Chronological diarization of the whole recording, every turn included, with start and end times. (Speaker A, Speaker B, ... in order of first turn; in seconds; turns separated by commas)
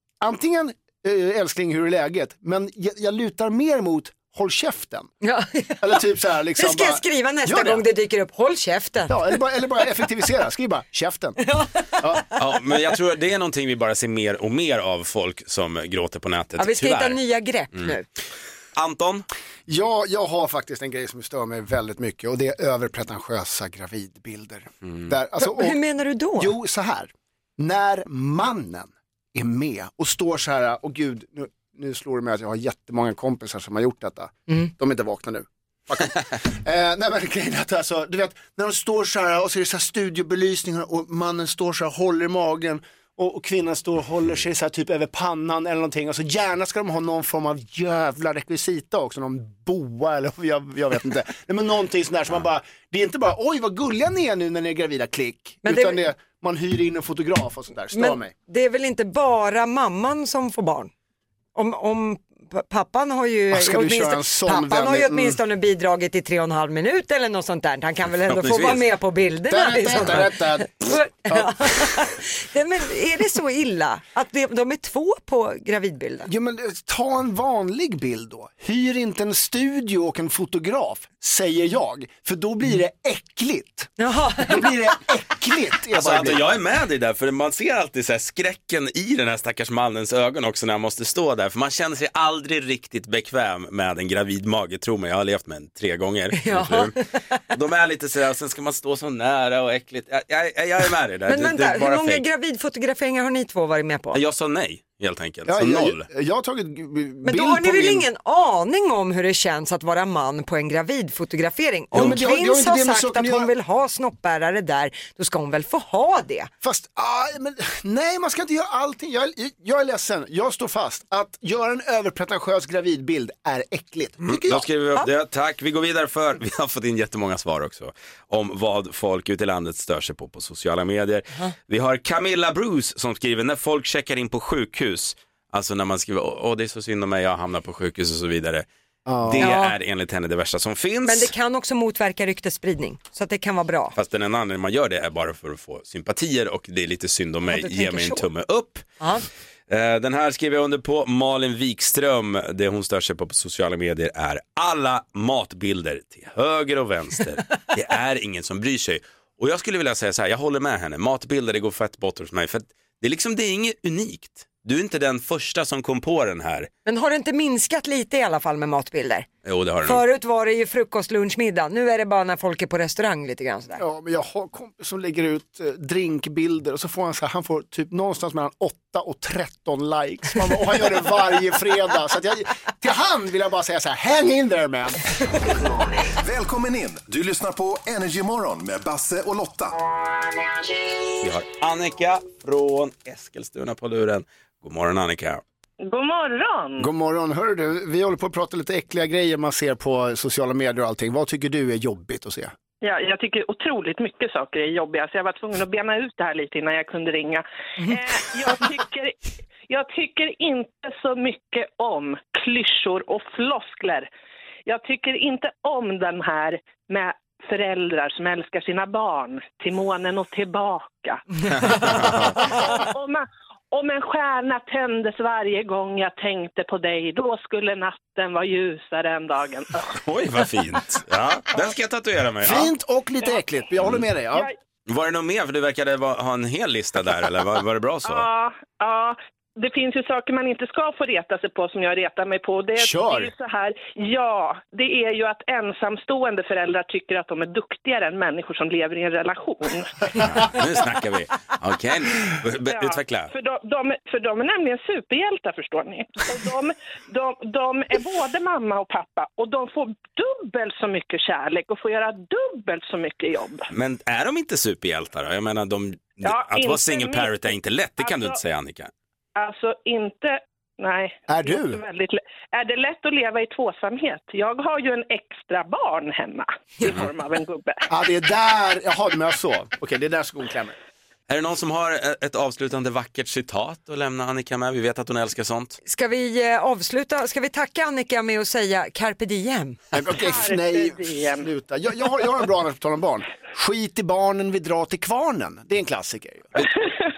Speaker A: 0.2-5.1, Speaker B: 5.2-6.0, Speaker A: 5.8-7.8, Speaker B: 6.6-9.4, Speaker A: 9.1-11.4, Speaker B: 11.4-12.3, Speaker C: 12.3-17.2, Speaker B: 16.6-18.1, Speaker C: 18.7-19.2, Speaker A: 19.7-25.8, Speaker B: 25.4-26.5, Speaker A: 26.4-58.3, Speaker B: 55.6-56.0, Speaker B: 57.9-60.9, Speaker B: 61.5-76.3, Speaker A: 63.5-65.4, Speaker C: 68.3-68.8, Speaker A: 69.5-71.8, Speaker A: 76.2-86.5, Speaker B: 84.0-84.7, Speaker C: 85.9-97.0, Speaker B: 96.4-96.9, Speaker C: 97.5-102.2, Speaker B: 101.3-104.2, Speaker C: 104.1-106.0, Speaker A: 105.5-108.0, Speaker B: 107.2-116.5, Speaker A: 111.9-113.5, Speaker A: 116.6-124.7, Speaker C: 124.2-138.7, Speaker A: 139.1-139.5, Speaker C: 139.2-141.3, Speaker B: 139.4-139.7, Speaker B: 141.1-143.9, Speaker C: 143.9-148.8, Speaker B: 147.4-148.2, Speaker C: 149.7-166.7, Speaker B: 166.8-169.3, Speaker C: 169.4-170.0, Speaker B: 169.8-173.8, Speaker A: 173.8-185.0, Speaker D: 185.5-189.8, Speaker C: 191.2-195.4, Speaker E: 195.8-196.9, Speaker A: 196.8-202.5, Speaker E: 202.8-214.1, Speaker E: 214.7-229.9, Speaker C: 221.5-222.3, Speaker C: 230.0-232.7, Speaker A: 232.4-234.5, Speaker C: 234.9-238.2, Speaker E: 238.0-250.0, Speaker A: 242.8-243.3, Speaker C: 250.2-253.3, Speaker E: 252.7-263.7, Speaker C: 263.7-268.9, Speaker E: 266.2-268.4, Speaker E: 269.4-277.8, Speaker A: 271.3-271.8, Speaker C: 276.8-277.1, Speaker A: 277.9-280.8, Speaker C: 281.3-285.8, Speaker B: 285.8-289.8, Speaker A: 289.9-296.6, Speaker E: 290.2-291.5